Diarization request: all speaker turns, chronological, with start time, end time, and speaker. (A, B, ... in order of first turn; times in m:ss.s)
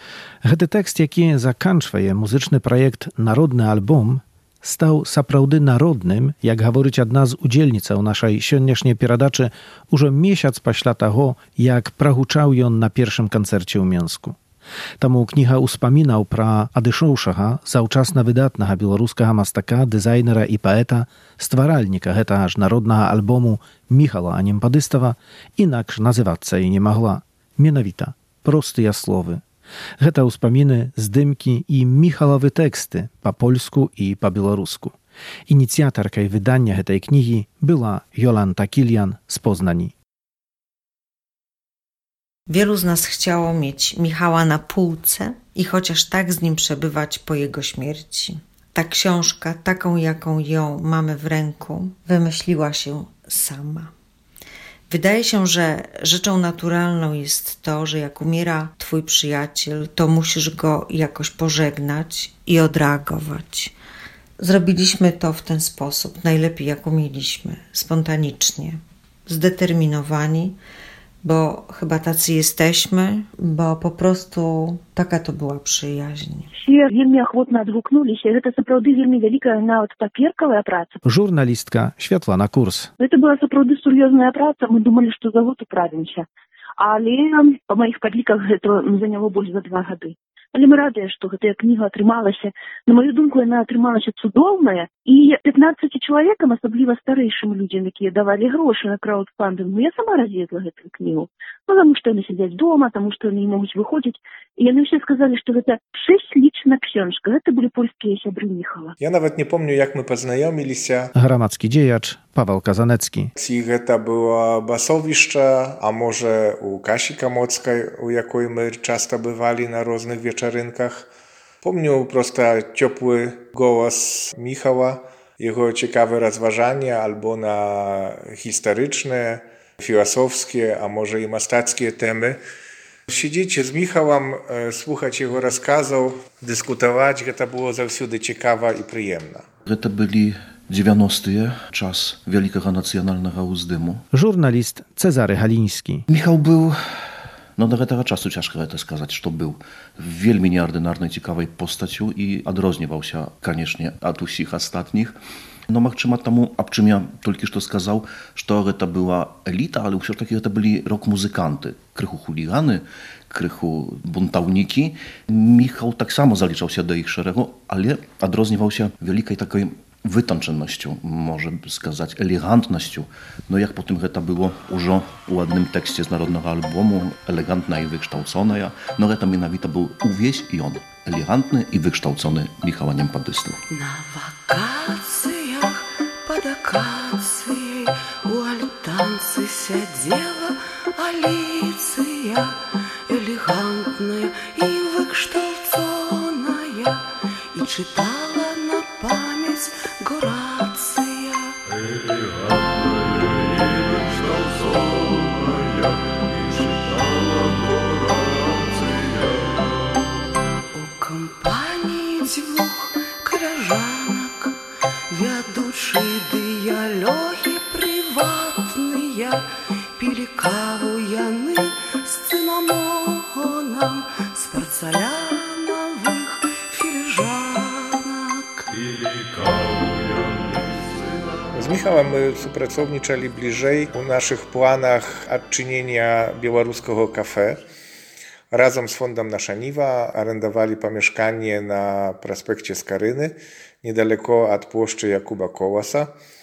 0:00.4-0:14.4 A
0:15.0-0:29.4 A
0:30.0-0:35.0 A
0:35.5-0:39.9 A
0:42.5-0:53.9 B
0:54.9-1:03.7 B
1:04.4-1:10.6 B
1:11.2-1:16.5 B
1:16.6-1:21.0 C
1:21.0-1:22.9 A
1:23.0-1:26.2 C
1:26.8-1:48.9 C
1:49.0-1:51.1 D
1:51.2-1:53.3 A
1:53.4-2:01.1 D
2:01.6-2:12.4 D
2:13.1-2:19.4 D
2:19.7-2:24.0 E
2:24.1-2:26.0 A
2:26.1-2:26.8 E
2:27.6-2:35.2 E
2:35.7-3:03.6 E
3:03.7-3:12.6 F
3:13.1-3:21.6 F
3:30.7-3:34.5 F
3:35.1-3:39.5 F
3:40.0-3:48.7 F
3:51.5-3:57.6 D
3:58.5-4:06.1 D